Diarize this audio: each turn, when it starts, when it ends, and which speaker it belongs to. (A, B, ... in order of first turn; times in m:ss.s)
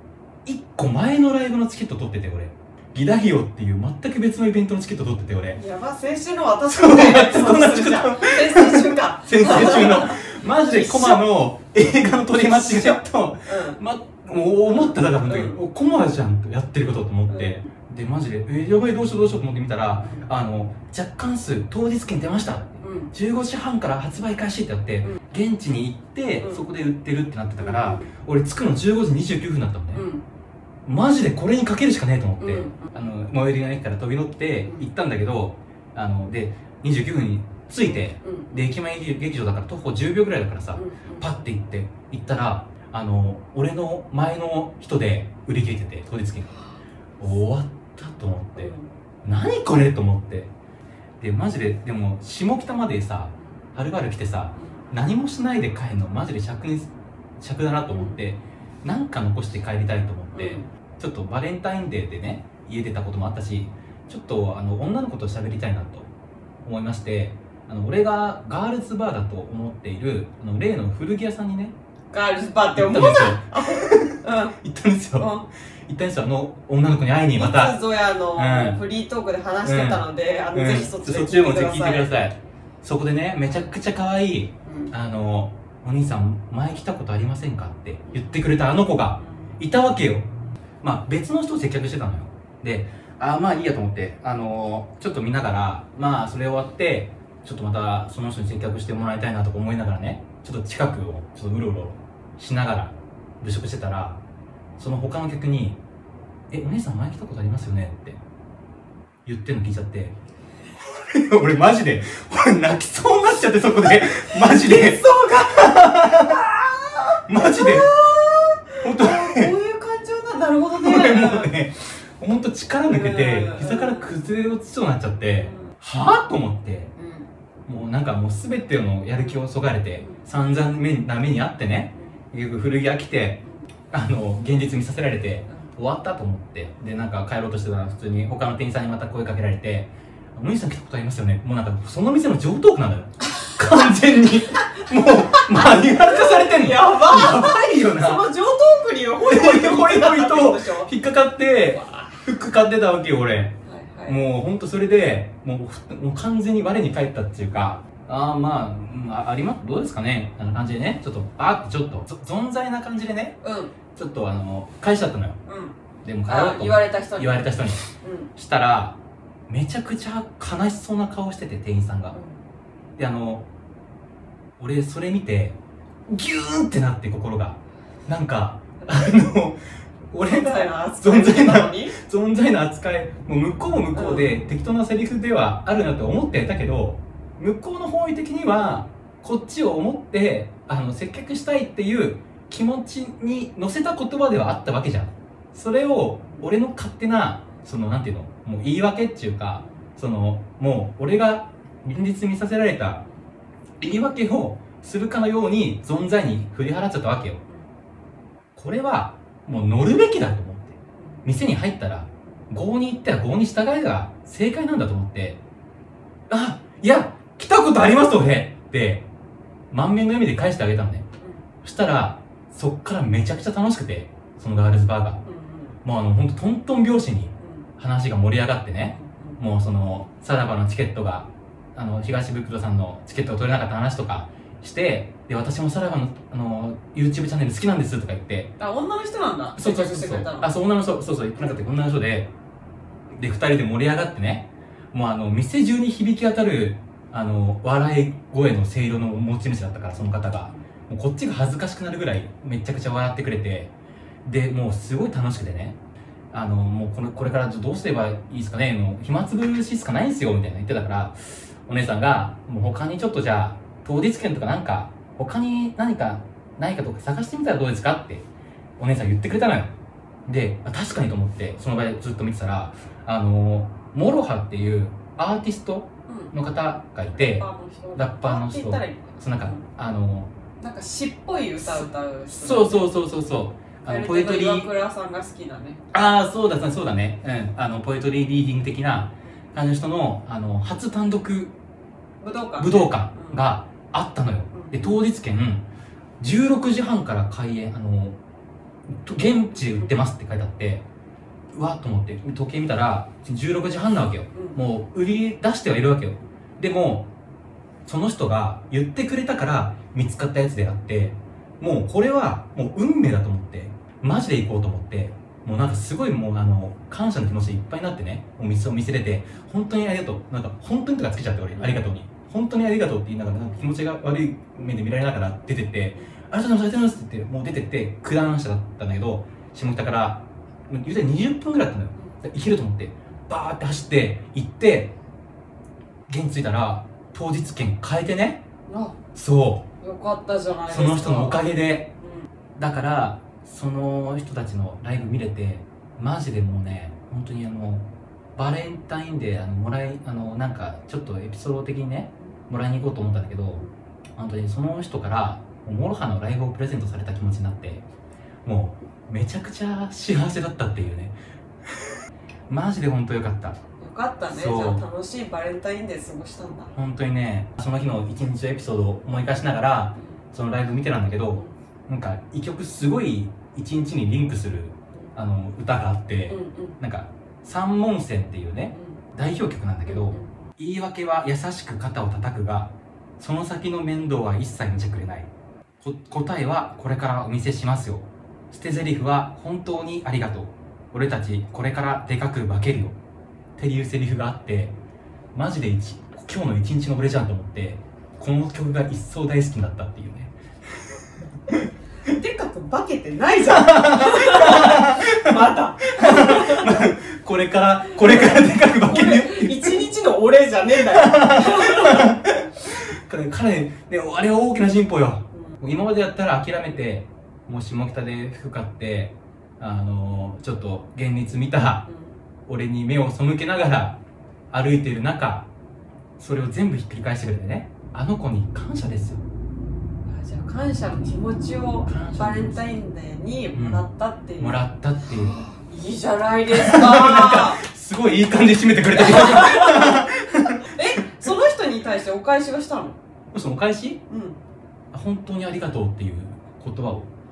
0:00.4-0:05.6 A
0:05.6-0:11.2 B
0:06.7-0:30.0 A
0:12.5-0:13.8 B
0:14.7-0:15.6 B
0:17.3-0:17.6 B
0:20.0-0:20.2 B
0:22.8-0:23.1 B
0:27.6-0:28.1 B
0:29.9-0:30.2 B
0:30.9-0:46.6 A
0:32.4-0:33.1 B
0:37.8-0:38.6 B
0:40.7-0:41.3 B
0:47.2-0:48.7 A
0:48.6-0:48.9 B
0:49.2-0:50.5 A
0:51.2-1:06.1 A
0:54.6-0:54.8 B
0:57.9-0:58.2 B
1:00.3-1:00.7 B
1:06.6-1:11.7 A
1:12.1-1:14.6 B
1:12.7-1:15.3 A
1:15.2-1:15.4 B
1:15.9-1:17.8 A
1:17.3-1:22.1 B
1:18.3-1:18.8 A
1:19.6-1:30.3 A
1:24.6-1:24.9 B
1:28.1-1:28.3 B
1:29.2-1:29.5 B
1:30.8-1:44.2 A
1:44.8-1:45.8 A
1:46.5-1:48.2 A
1:49.2-1:50.1 A
1:50.9-1:56.4 A
1:54.2-2:01.5 B
1:57.3-1:57.9 A
1:58.8-1:59.5 A
2:00.8-2:06.9 A
2:02.9-2:04.1 B
2:05.4-2:05.7 B
2:07.0-2:07.3 B
2:07.6-2:28.3 A
2:10.0-2:10.2 B
2:11.9-2:12.2 B
2:24.6-2:30.9 B
2:29.2-2:33.5 A
2:31.8-2:32.1 B
2:33.6-2:34.2 B
2:34.1-2:43.4 A
2:43.4-2:43.7 B
2:43.9-2:45.4 A
2:45.5-2:45.8 B
2:46.0-2:47.8 A
2:46.3-2:48.3 B
2:48.4-2:49.0 A
2:49.5-2:52.2 A
2:52.1-2:52.4 B
2:53.0-2:53.4 A
2:54.6-2:59.6 A
3:00.1-3:23.0 A
3:00.2-3:01.9 B
3:03.9-3:04.4 B
3:19.6-3:19.9 B
3:23.8-3:27.4 A
3:28.5-3:35.4 A
3:31.0-3:31.2 B
3:36.3-3:39.0 A
3:39.7-3:41.0 A
3:41.6-3:45.2 A
3:45.2-3:45.8 B
3:45.8-3:58.5 A
3:47.4-3:47.7 B
3:48.8-3:49.4 B
3:58.6-4:00.5 B
3:59.6-4:02.3 A
4:03.1-4:13.7 A
4:14.2-4:15.8 A
4:16.3-4:28.2 A
4:28.8-4:29.7 A
4:30.3-4:40.3 A
4:36.1-4:36.3 B
4:37.1-4:39.6 B
4:40.6-4:42.9 B
4:41.6-4:44.7 A
4:43.8-4:45.8 B
4:45.9-4:51.5 A
4:52.2-4:53.4 B
4:52.6-4:55.6 A
4:54.5-4:55.0 B
4:56.2-4:58.2 A
4:58.9-5:00.8 A
5:01.5-5:07.1 A
5:04.3-5:04.6 B
5:07.9-5:34.9 A
5:36.1-5:38.4 A
5:38.7-5:39.0 B
5:39.1-5:39.6 A
5:39.8-5:41.4 B
5:40.7-5:41.9 A
5:42.0-5:42.3 B
5:42.6-5:53.6 A
5:54.2-5:57.8 A
5:58.4-6:01.1 A
6:01.7-6:01.9 A
6:02.5-6:03.6 A
6:03.8-6:06.7 B
6:04.3-6:04.8 A
6:06.7-6:25.3 A
6:16.3-6:16.8 B
6:18.7-6:19.0 B
6:19.9-6:20.3 B
6:25.8-6:33.0 A
6:33.6-6:34.7 A
6:35.3-6:40.3 A
6:42.0-6:46.9 B
6:43.5-6:49.8 A
6:48.0-6:52.2 B
6:50.8-7:01.9 A
6:55.3-6:55.6 B
7:01.9-7:02.2 B
7:02.5-7:04.0 A
7:04.5-7:05.5 A
7:06.2-7:09.2 A
7:10.0-7:17.6 B
7:11.9-7:12.7 A
7:13.5-7:13.8 A
7:14.4-7:15.4 A
7:16.5-7:20.8 A
7:18.9-7:23.0 B
7:23.3-7:24.0 A
7:24.1-7:24.4 B
7:24.9-7:27.1 A